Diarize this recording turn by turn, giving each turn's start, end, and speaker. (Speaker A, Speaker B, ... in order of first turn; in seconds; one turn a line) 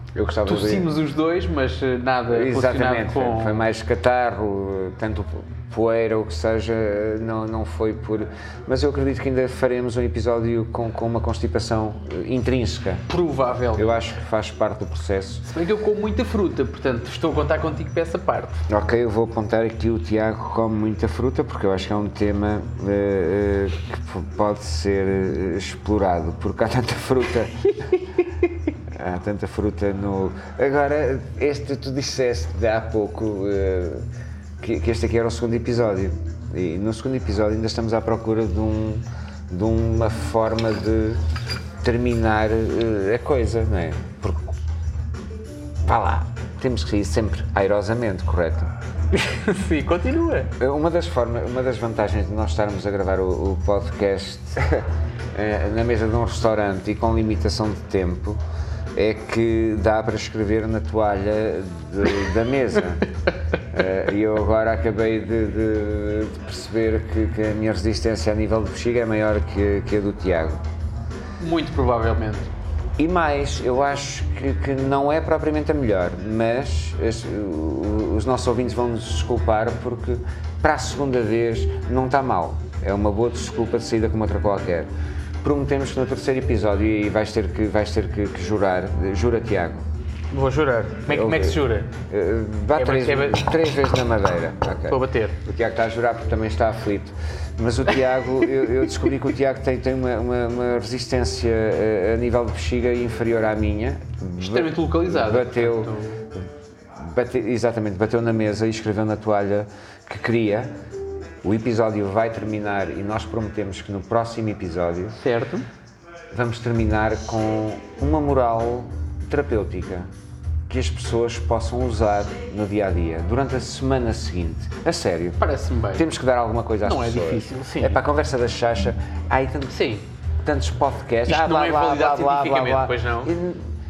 Speaker A: 0.1-0.9
Speaker B: 0.4-3.6
Speaker A: 2.3-13.0
Speaker B: 13.1-13.9
Speaker A: 13.7-15.4
Speaker B: 15.5-18.6
Speaker A: 18.7-27.9
Speaker A: 28.9-34.1
Speaker A: 34.6-41.2
Speaker A: 41.8-44.5
Speaker A: 45.8-48.7
Speaker B: 49.1-50.5
Speaker A: 50.6-58.4
Speaker A: 58.9-63.1
Speaker A: 63.7-70.6
Speaker B: 71.4-72.5
Speaker A: 73.0-84.9
Speaker A: 85.4-89.8
Speaker B: 90.3-91.9
Speaker A: 91.1-106.4
Speaker B: 92.8-93.5
Speaker B: 94.9-95.4
Speaker B: 104.4-106.2
Speaker A: 107.0-110.7
Speaker A: 111.4-115.2
Speaker B: 115.2-115.6
Speaker A: 116.3-120.1
Speaker A: 120.7-125.4
Speaker B: 125.4-126.0
Speaker A: 125.9-129.8
Speaker B: 126.8-128.0
Speaker B: 129.7-130.0
Speaker A: 130.4-133.7
Speaker B: 131.3-133.3